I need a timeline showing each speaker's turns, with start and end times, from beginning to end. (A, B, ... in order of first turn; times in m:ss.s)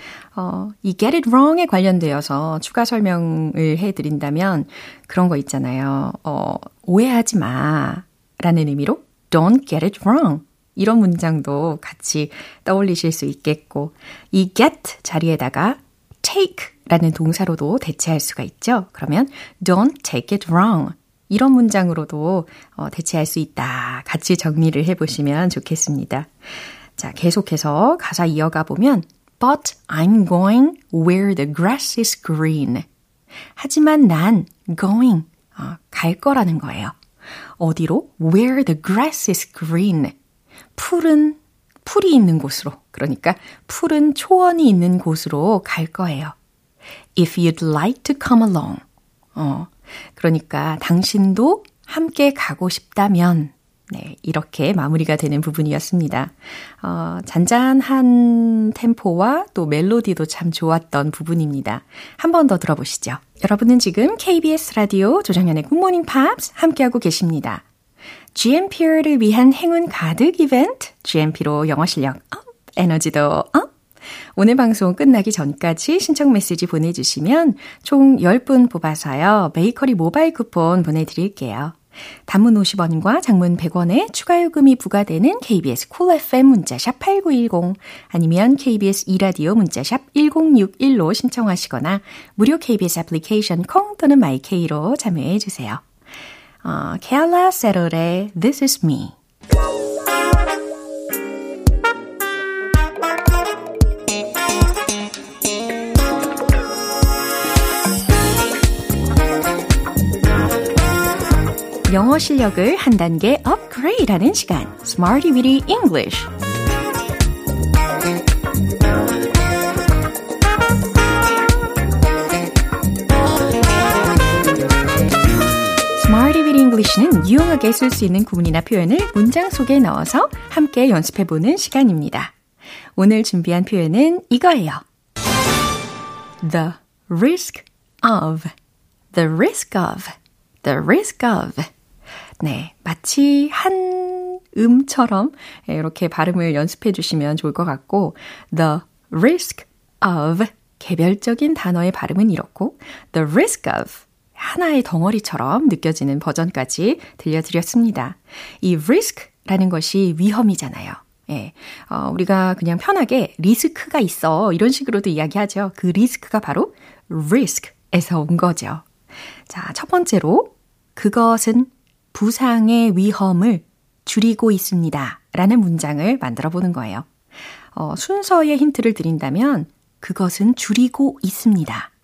0:00.3-0:26.3 A
0:27.0-0:32.8 A
0:33.6-0:36.9 A
0:37.6-0:40.1 A
0:40.8-0:46.3 A
0:47.2-0:48.8 A
0:49.4-1:07.6 A
1:08.3-1:13.7 A
1:14.4-1:35.8 A
1:36.6-1:39.1 A
1:51.9-1:56.3 A
2:06.0-2:12.3 A
2:13.0-2:14.8 A
2:16.4-2:18.5 A
2:19.1-2:21.7 A
2:22.4-2:48.8 A
2:49.5-2:57.0 A
2:57.7-3:01.9 A